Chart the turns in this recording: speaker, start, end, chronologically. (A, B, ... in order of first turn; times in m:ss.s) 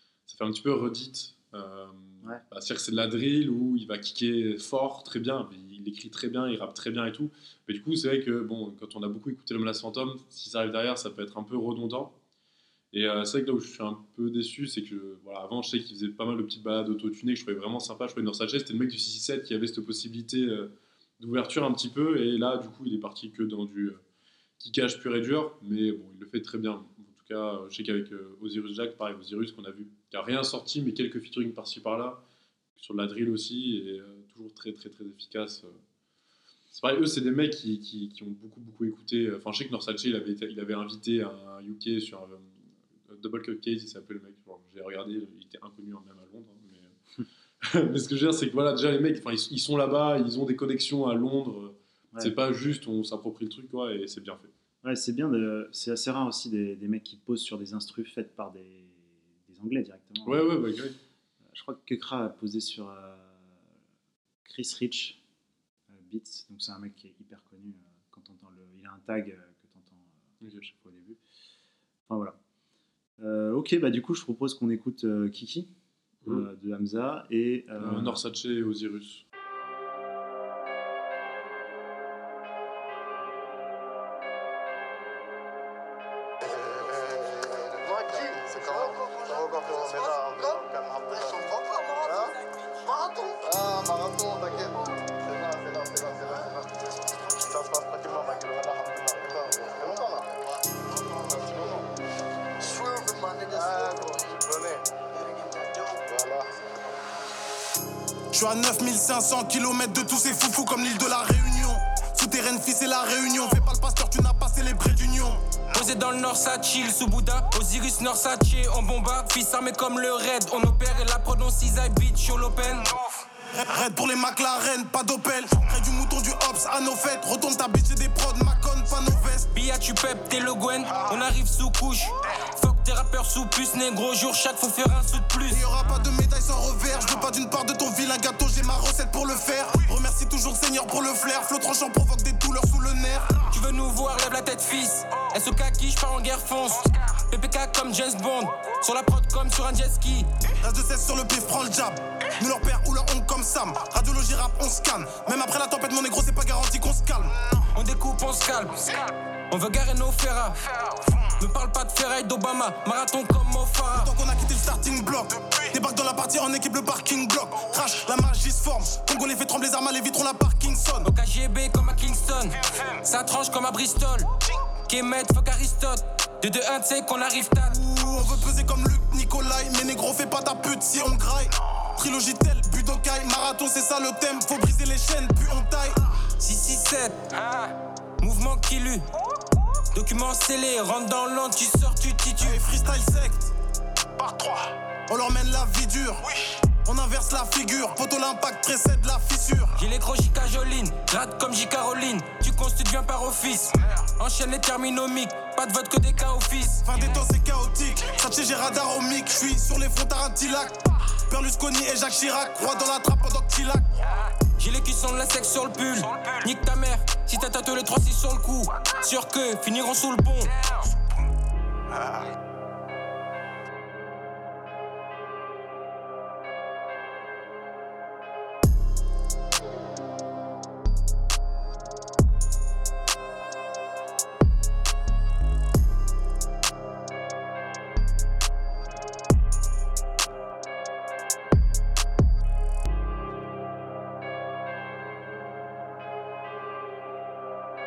0:00.3-0:12.1 A
0:12.9-0:24.0 A
0:24.6-0:32.2 A
0:32.8-0:35.8 A
0:36.7-0:46.9 A
0:47.6-0:54.5 A
0:52.1-0:52.5 B
0:54.8-1:00.5 B
1:00.2-1:01.0 A
1:01.5-1:03.5 B
1:04.4-1:05.2 B
1:05.9-1:11.2 B
1:10.4-1:10.7 A
1:12.1-1:12.4 B
1:13.2-1:15.7 B
1:16.2-1:18.2 B
1:17.8-1:19.2 A
1:48.3-1:55.4 C
1:55.7-2:03.2 D
2:03.5-2:09.5 C
2:09.5-2:15.6 D
2:10.9-2:11.2 C
2:15.5-2:23.4 C
2:23.5-2:30.3 D
2:30.6-2:37.3 C
2:37.7-2:38.9 D
2:39.5-2:44.1 D
2:43.9-2:51.1 C
2:51.0-2:54.3 D
2:54.9-2:57.7 D
2:57.7-3:06.0 C
3:06.4-3:09.0 D
3:09.9-3:12.6 D
3:12.4-3:13.5 C
3:14.2-3:16.2 C
3:16.8-3:19.8 C
3:19.8-3:27.0 D
3:26.8-3:30.7 C
3:31.3-3:33.9 C
3:34.6-3:40.5 D